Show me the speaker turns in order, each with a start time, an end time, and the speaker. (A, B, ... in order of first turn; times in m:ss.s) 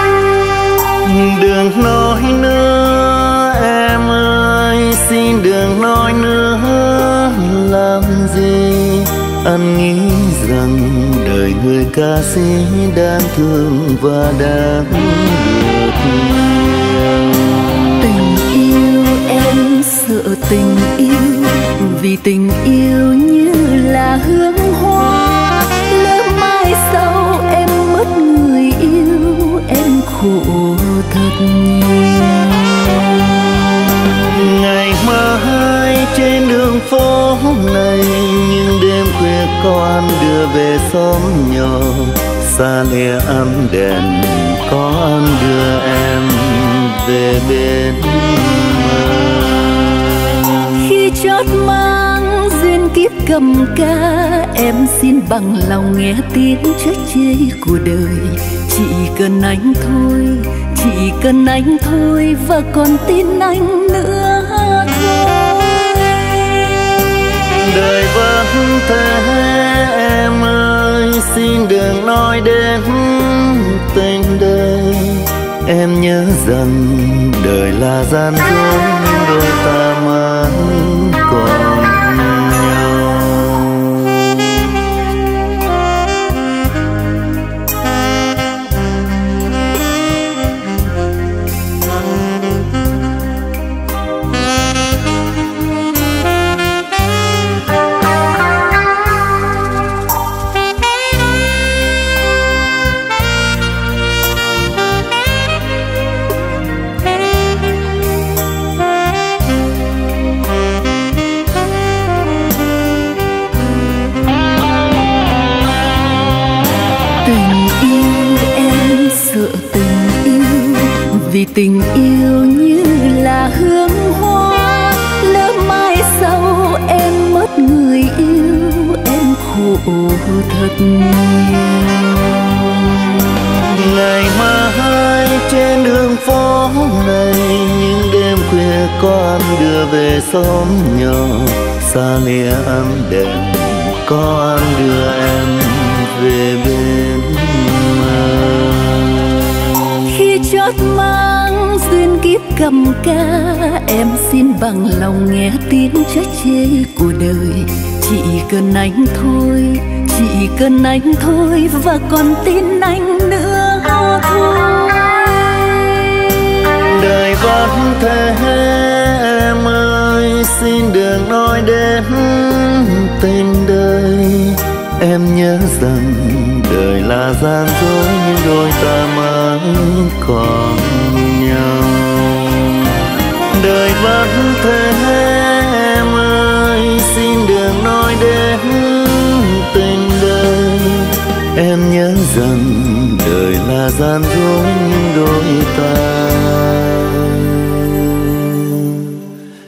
0:01.0-0:17.6 A
0:17.9-0:33.0 B
0:34.2-0:49.5 A
0:50.7-1:07.2 B
1:07.5-1:24.1 A
1:57.2-2:12.5 B
2:13.6-2:29.1 A
2:30.0-2:46.7 B
2:46.8-3:02.9 A
3:03.5-3:19.2 A